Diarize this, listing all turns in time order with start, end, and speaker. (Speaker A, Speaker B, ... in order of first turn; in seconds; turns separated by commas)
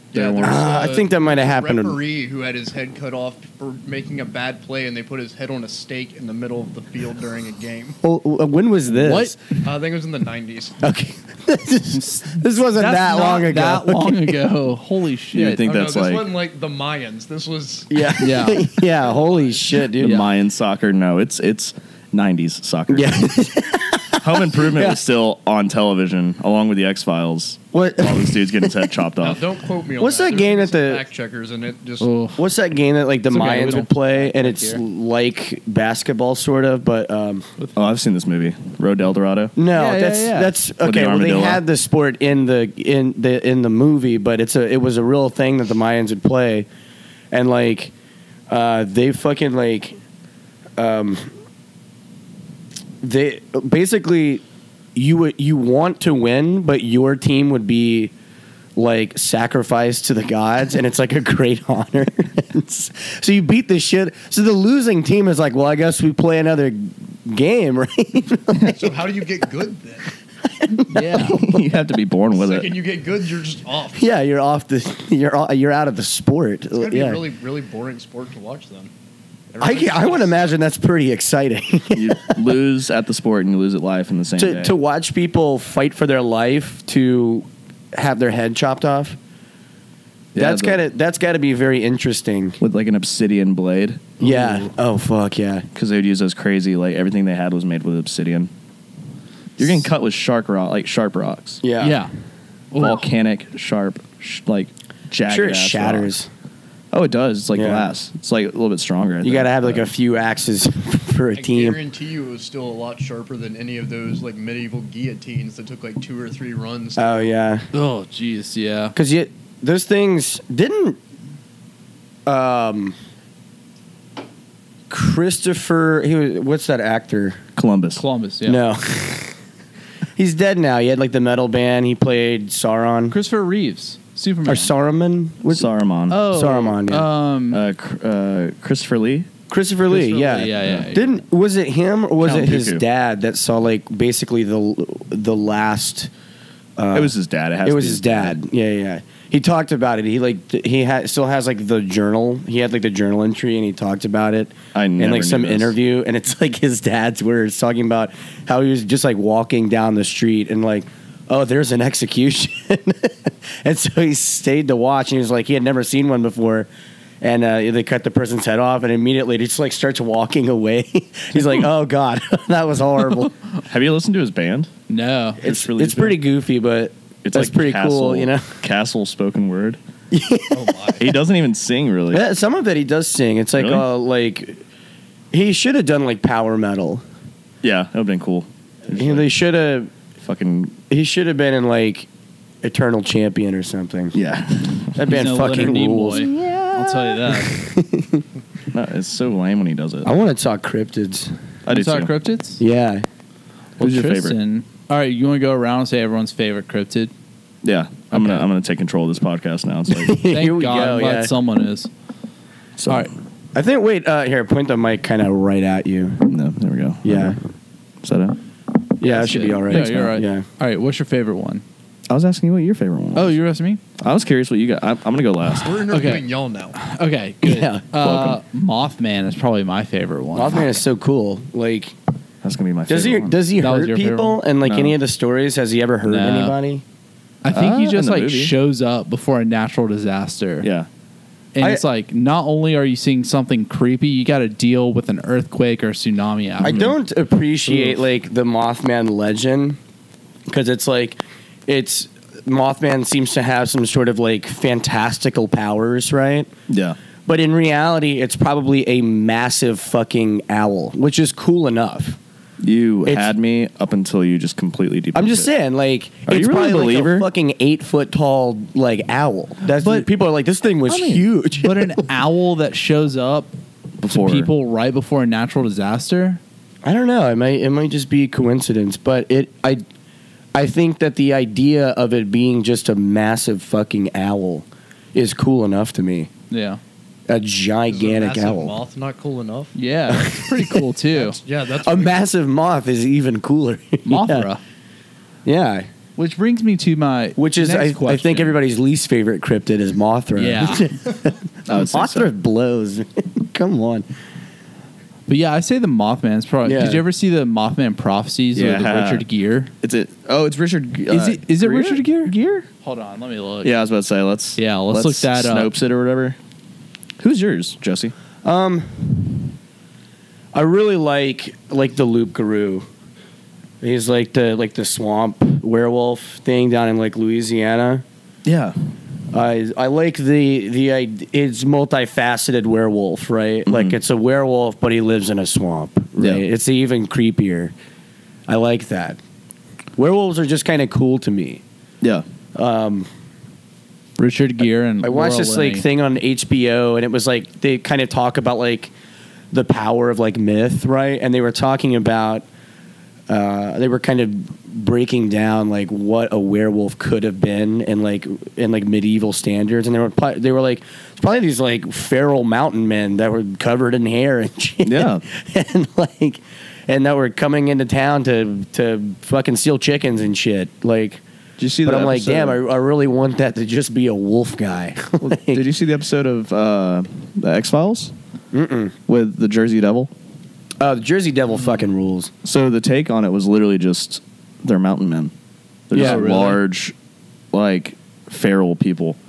Speaker A: 0.1-0.8, Speaker B: 0.1-8.0, Speaker C: 0.4-2.0, Speaker C: 8.0-9.4, Speaker A: 8.9-9.4, Speaker B: 9.6-10.8, Speaker C: 10.8-14.4, Speaker A: 11.9-15.7, Speaker D: 15.3-16.4, Speaker B: 15.4-19.7, Speaker C: 17.9-20.2, Speaker A: 18.2-18.7, Speaker D: 20.0-23.5, Speaker A: 20.0-20.3, Speaker C: 22.9-25.0, Speaker D: 24.2-29.5, Speaker C: 27.7-28.9, Speaker B: 29.2-32.1, Speaker C: 30.0-31.0, Speaker A: 32.0-32.5, Speaker C: 32.4-37.5, Speaker A: 33.3-34.8, Speaker D: 37.8-39.5, Speaker C: 39.6-46.7, Speaker A: 39.7-40.6, Speaker D: 40.8-41.6, Speaker C: 47.3-47.9, Speaker C: 48.5-50.0, Speaker C: 50.8-51.3, Speaker C: 53.0-54.4, Speaker C: 55.0-58.1, Speaker C: 58.8-69.0, Speaker B: 68.7-70.1, Speaker C: 70.6-71.6, Speaker A: 70.9-71.4, Speaker D: 71.0-72.8, Speaker B: 72.3-74.1, Speaker C: 73.9-77.2, Speaker B: 76.8-78.9, Speaker B: 79.5-80.4, Speaker C: 79.6-82.4, Speaker D: 81.9-84.7, Speaker C: 84.4-89.2, Speaker D: 90.3-90.8, Speaker C: 90.4-92.6, Speaker D: 92.6-94.2, Speaker C: 94.2-95.7, Speaker A: 94.2-94.7, Speaker D: 95.8-98.5, Speaker D: 99.6-101.6, Speaker C: 101.6-102.0, Speaker A: 101.8-102.1, Speaker A: 102.7-103.0, Speaker D: 102.8-106.1, Speaker C: 105.3-106.3, Speaker D: 106.9-109.9, Speaker C: 107.5-107.9, Speaker C: 109.2-111.8, Speaker B: 111.4-117.3, Speaker C: 117.0-117.7, Speaker A: 117.7-119.0, Speaker C: 119.0-121.0, Speaker C: 122.3-123.0, Speaker C: 124.9-127.4, Speaker D: 127.6-128.0, Speaker A: 128.0-128.7, Speaker C: 128.4-129.4, Speaker C: 130.2-133.2, Speaker A: 133.1-134.7, Speaker C: 134.5-135.7, Speaker D: 135.5-136.2, Speaker A: 136.1-137.6, Speaker C: 136.3-137.1, Speaker D: 137.5-139.3, Speaker C: 139.5-146.1, Speaker A: 139.9-141.1, Speaker D: 140.6-140.9, Speaker D: 142.2-142.8, Speaker C: 146.8-166.7, Speaker D: 146.9-148.4, Speaker D: 154.7-155.8, Speaker C: 167.2-173.3, Speaker D: 173.6-174.7, Speaker A: 174.9-175.4, Speaker C: 175.4-178.5, Speaker D: 175.4-176.2, Speaker D: 177.2-179.8, Speaker C: 180.1-181.0, Speaker B: 180.5-181.1, Speaker D: 181.0-182.2, Speaker C: 182.1-184.6, Speaker D: 183.6-183.9, Speaker C: 185.3-187.0, Speaker D: 187.6-189.3, Speaker C: 188.9-189.9, Speaker D: 190.2-190.8, Speaker C: 190.9-192.1, Speaker C: 192.6-194.2, Speaker D: 194.1-195.1, Speaker C: 194.9-196.3, Speaker A: 195.1-197.5, Speaker D: 196.1-197.4, Speaker C: 197.4-198.2, Speaker D: 198.7-200.1, Speaker C: 200.0-201.3, Speaker D: 201.7-202.1, Speaker A: 201.7-202.6, Speaker C: 202.6-203.1, Speaker A: 203.8-207.1, Speaker D: 203.8-204.4, Speaker D: 207.6-210.2, Speaker A: 208.1-208.5, Speaker C: 209.9-211.3, Speaker A: 210.3-211.9, Speaker D: 212.8-213.1, Speaker C: 213.6-216.3, Speaker D: 216.3-217.4, Speaker C: 217.0-217.4, Speaker D: 218.0-218.4, Speaker C: 219.0-220.5, Speaker A: 219.0-221.6, Speaker D: 219.7-220.1, Speaker D: 222.1-223.4, Speaker A: 223.1-223.8, Speaker D: 224.0-225.9, Speaker B: 225.6-226.8, Speaker A: 225.9-230.8, Speaker C: 227.4-227.9, Speaker D: 228.0-228.4, Speaker C: 230.3-231.9, Speaker D: 232.4-233.4, Speaker C: 232.9-236.8, Speaker A: 233.6-234.4, Speaker D: 234.6-235.0, Speaker A: 236.1-236.6, Speaker A: 237.4-240.7, Speaker D: 237.5-238.5, Speaker D: 240.6-240.9, Speaker A: 241.6-246.9, Speaker C: 246.6-249.8, Speaker D: 246.6-246.9, Speaker C: 250.5-256.5, Speaker D: 256.7-257.0, Speaker C: 257.3-262.2, Speaker D: 262.6-265.5, Speaker C: 263.1-263.3, Speaker C: 265.1-272.0, Speaker D: 266.3-267.3, Speaker D: 269.7-270.1, Speaker D: 270.9-271.3, Speaker A: 271.6-273.5, Speaker D: 274.0-274.5, Speaker A: 274.1-276.4, Speaker C: 276.8-279.8, Speaker C: 280.5-286.3, Speaker A: 286.5-286.8, Speaker C: 287.3-288.8, Speaker B: 287.9-289.8, Speaker A: 289.8-291.4, Speaker C: 290.1-290.9, Speaker B: 291.1-292.2, Speaker C: 291.8-294.5, Speaker A: 294.1-294.6, Speaker C: 295.4-295.9, Speaker A: 296.2-298.6, Speaker C: 297.4-304.1, Speaker A: 300.4-300.9, Speaker D: 301.7-302.3, Speaker A: 305.3-309.7, Speaker C: 306.6-307.1, Speaker D: 308.5-309.3, Speaker D: 309.8-312.7, Speaker A: 311.1-313.7, Speaker D: 313.6-316.4, Speaker A: 314.6-315.7, Speaker D: 317.2-318.1, Speaker C: 318.4-319.5, Speaker C: 320.5-322.9, Speaker C: 323.8-328.0, Speaker D: 328.4-328.8, Speaker C: 329.3-337.7, Speaker D: 333.7-334.0, Speaker D: 336.2-336.4, Speaker C: 338.5-339.2, Speaker C: 340.0-341.6, Speaker C: 342.6-343.1, Speaker A: 344.2-345.9, Speaker C: 345.0-348.9, Speaker C: 349.5-352.5, Speaker C: 353.3-371.2, Speaker D: 364.8-365.2, Speaker D: 371.6-372.6, Speaker C: 371.8-375.7, Speaker D: 375.3-378.1, Speaker C: 378.5-378.9, Speaker D: 379.1-380.1, Speaker C: 380.8-382.3, Speaker D: 382.4-385.3, Speaker D: 385.9-386.9, Speaker A: 385.9-386.6, Speaker C: 385.9-386.4, Speaker D: 387.5-389.2